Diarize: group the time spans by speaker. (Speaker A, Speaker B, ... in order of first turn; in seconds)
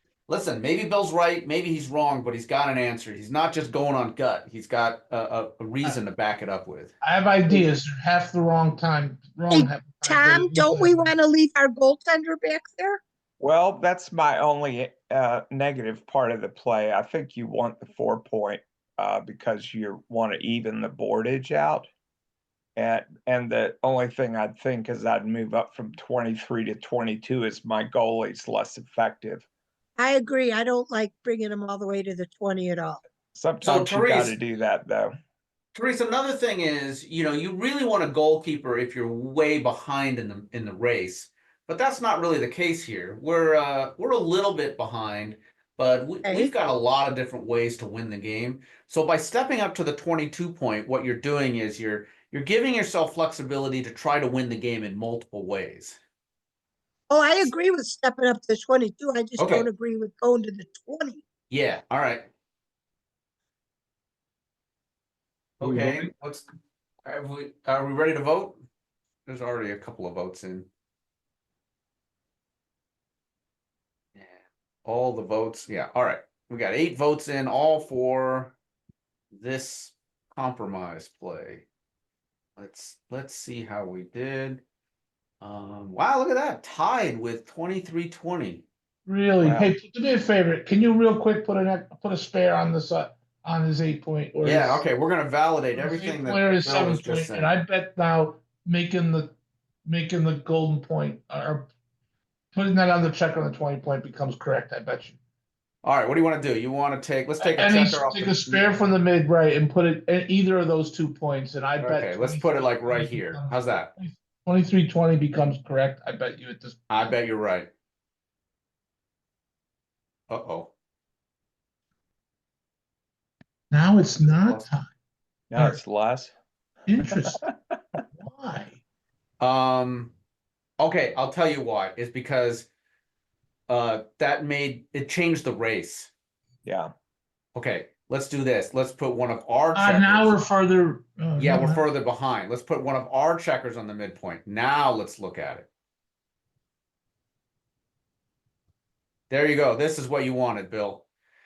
Speaker A: 0.3-6.9, 33.6-34.3, 35.7-56.0, 59.4-59.7, 61.5-62.3, 65.6-66.5, 67.0-68.6, 69.2-70.7, 74.1-78.5, 79.3-81.6, 82.6-84.6, 85.4-88.6, 94.4-97.6, 105.8-108.7, 111.8-113.9, 116.9-117.7, 120.3-120.7, 124.3-124.7, 129.4-130.1, 130.8-132.7, 133.7-136.1, 137.5-140.4, 141.4-145.7, 149.3-151.0
Speaker B: 7.0-11.1, 89.0-94.9, 95.7-99.3, 99.8-101.7, 102.5-105.2, 107.4-117.0, 123.7-124.9, 126.9-127.4, 128.2-128.8, 139.7-141.9
Speaker C: 9.5-13.0, 30.0-33.0, 46.2-46.5, 57.1-61.2
Speaker D: 13.4-21.9, 22.8-29.4, 33.3-35.1, 125.5-126.3, 127.1-127.5, 136.6-136.9